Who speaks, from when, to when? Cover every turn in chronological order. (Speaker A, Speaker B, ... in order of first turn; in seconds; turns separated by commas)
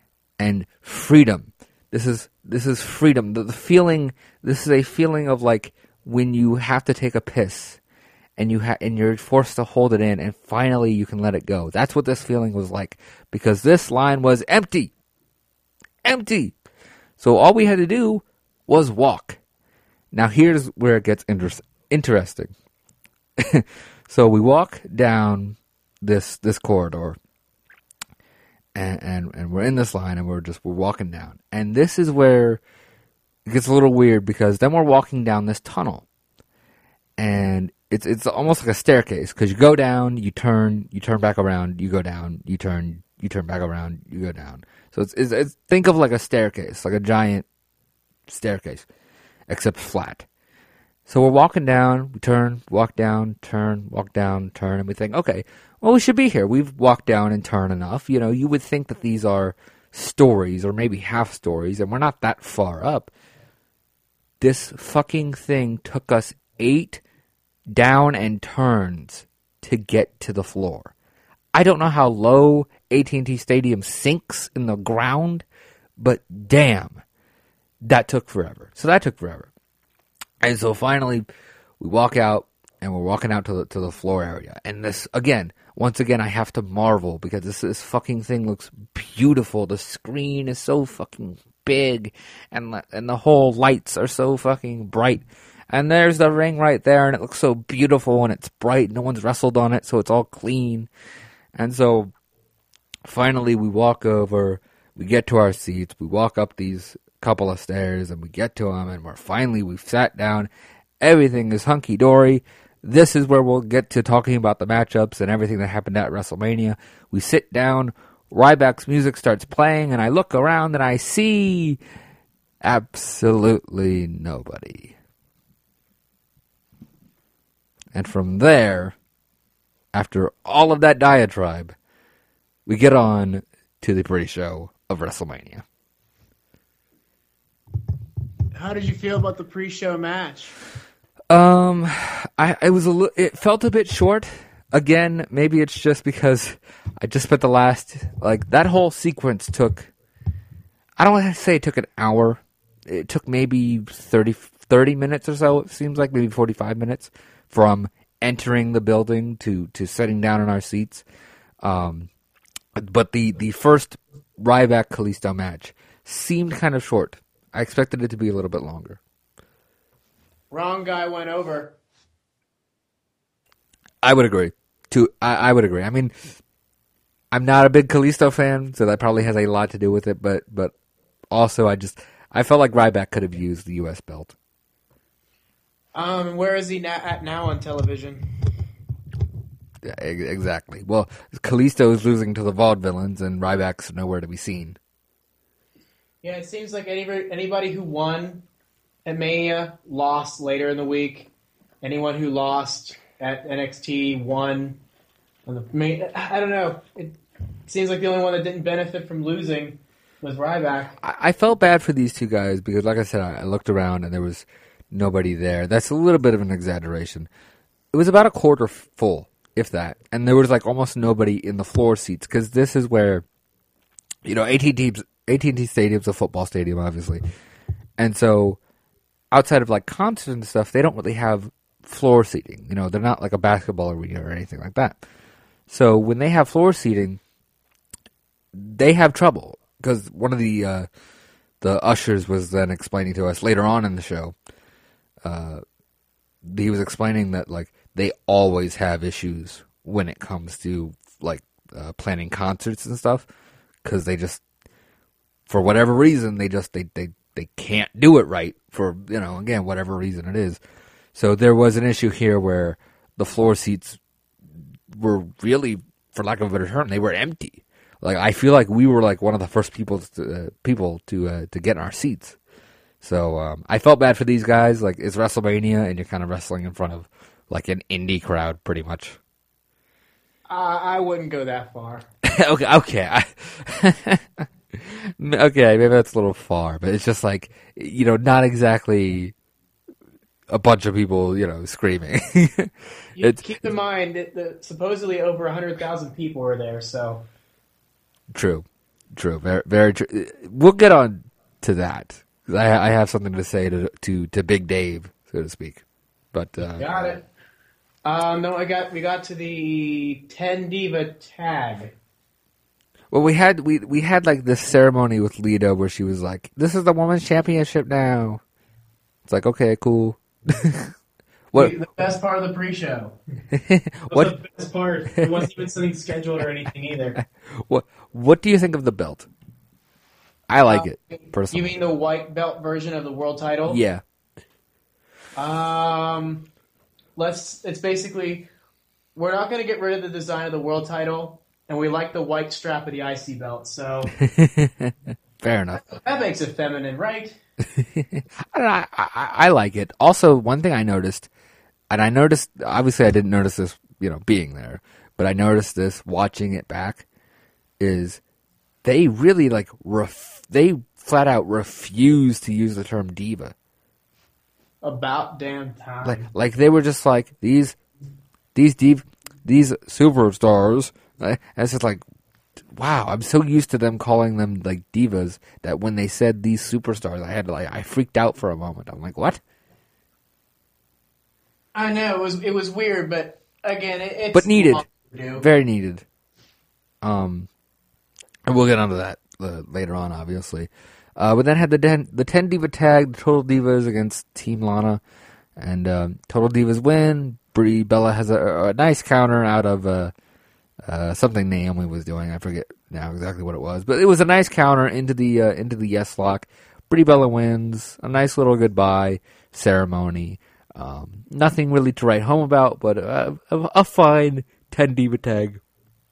Speaker A: 0.4-7.8, Speaker A: 8.4-14.9, Speaker A: 16.0-16.6, Speaker A: 17.2-19.4, Speaker A: 20.1-22.5, Speaker A: 23.4-27.2, Speaker A: 28.8-32.6, Speaker A: 33.5-36.0, Speaker A: 37.2-47.5, Speaker A: 48.3-48.9, Speaker A: 49.5-50.3, Speaker A: 51.1-63.1, Speaker A: 64.4-67.0, Speaker A: 67.7-70.9, Speaker A: 71.5-75.5, Speaker A: 76.0-77.0, Speaker A: 77.8-79.5, Speaker A: 80.4-81.3, Speaker A: 81.8-100.9, Speaker A: 101.5-102.1, Speaker A: 103.0-110.5, Speaker A: 111.0-121.8, Speaker A: 122.6-125.0, Speaker A: 127.9-128.9, Speaker A: 129.9-131.8, Speaker A: 132.7-135.6, Speaker B: 138.5-140.6, Speaker A: 141.3-149.9, Speaker A: 151.0-161.1, Speaker A: 161.6-162.1, Speaker A: 162.8-169.0, Speaker B: 170.5-171.8, Speaker A: 174.0-176.1, Speaker A: 177.3-180.7, Speaker A: 181.3-184.3, Speaker B: 185.9-188.3, Speaker A: 189.8-194.8, Speaker B: 196.2-198.4, Speaker B: 199.1-201.3, Speaker B: 201.8-204.8, Speaker B: 205.5-211.0, Speaker A: 211.0-217.3, Speaker A: 217.9-223.2, Speaker A: 224.2-227.2, Speaker A: 228.0-228.6, Speaker A: 229.3-235.0, Speaker A: 235.7-237.2, Speaker A: 238.5-240.9, Speaker A: 241.6-244.3, Speaker A: 245.2-245.6, Speaker A: 246.4-253.3, Speaker A: 253.8-254.4, Speaker A: 255.5-260.6, Speaker A: 261.1-264.0, Speaker A: 264.9-272.4, Speaker A: 273.0-279.2, Speaker B: 280.5-282.1, Speaker A: 282.2-289.3, Speaker A: 290.5-293.7, Speaker B: 293.1-297.3, Speaker A: 298.3-307.2, Speaker B: 306.6-307.2, Speaker B: 308.1-311.9, Speaker A: 313.1-318.4, Speaker A: 319.2-320.9, Speaker A: 321.5-321.8, Speaker B: 321.6-323.2, Speaker A: 323.5-324.3, Speaker B: 324.1-327.2, Speaker A: 325.2-325.4, Speaker A: 327.2-329.3, Speaker A: 330.5-331.8, Speaker B: 330.7-333.8, Speaker A: 333.7-334.0, Speaker B: 335.4-336.5, Speaker B: 337.2-338.5, Speaker B: 339.1-344.2, Speaker A: 344.2-345.8, Speaker B: 345.8-347.4, Speaker A: 347.8-351.3, Speaker A: 351.9-357.1, Speaker A: 357.8-358.2, Speaker A: 358.8-363.6, Speaker B: 364.8-366.3, Speaker A: 366.0-367.8, Speaker A: 368.6-372.0, Speaker A: 372.7-379.4, Speaker B: 381.7-385.5, Speaker A: 384.3-386.1, Speaker A: 387.0-387.5, Speaker A: 388.5-395.0, Speaker A: 395.6-400.1, Speaker A: 400.8-415.6